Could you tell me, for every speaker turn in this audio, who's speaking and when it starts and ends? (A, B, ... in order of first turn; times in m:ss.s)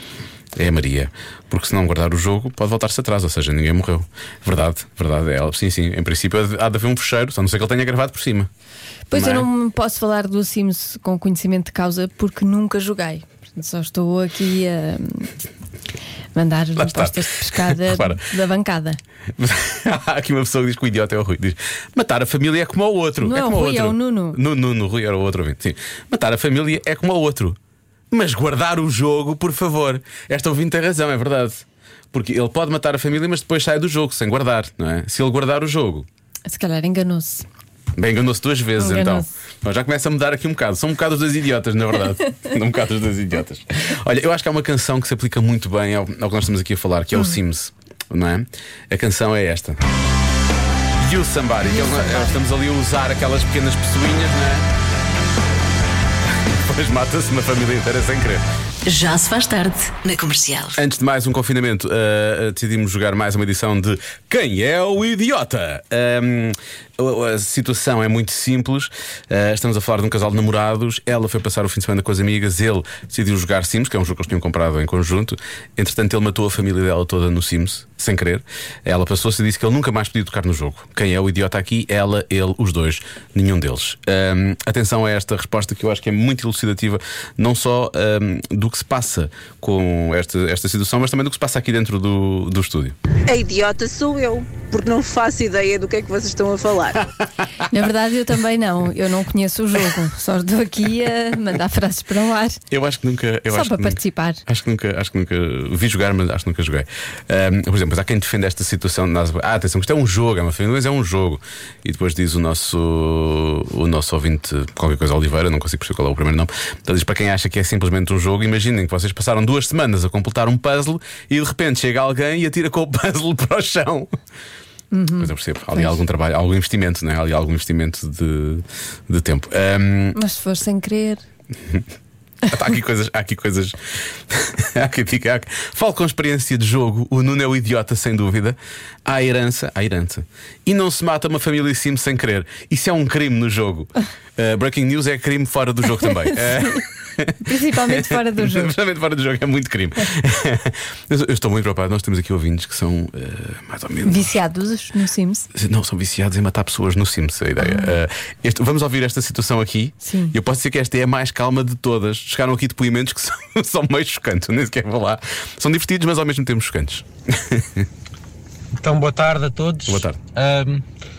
0:00.5-0:08.5 A
0:09.1-0:15.3 B
0:09.1-0:09.5 A
0:16.4-0:19.0 B
0:16.8-0:18.3 A
0:19.4-0:27.6 A
0:23.2-0:24.4 B
0:28.1-0:36.1 A
0:36.5-0:37.5 B
0:38.0-0:49.8 A
0:38.8-0:39.3 B
0:51.0-0:54.7 A
0:51.7-0:52.4 B
0:56.2-0:58.4 A
0:58.9-1:00.8 C
1:00.8-1:33.0 A
1:33.3-1:37.1 D
1:37.7-1:42.6 B
1:42.7-2:04.2 A
1:43.5-1:44.4 B
2:04.9-2:06.0 B
2:05.2-2:10.2 A
2:10.2-2:11.2 B
2:11.6-2:11.9 A
2:12.5-2:34.4 A
2:26.3-2:26.8 B
2:27.4-2:28.7 B
2:34.0-2:35.5 B
2:35.5-2:47.9 A
2:37.6-2:38.0 B
2:40.0-2:40.4 B
2:48.8-2:50.8 E
2:49.9-2:50.2 A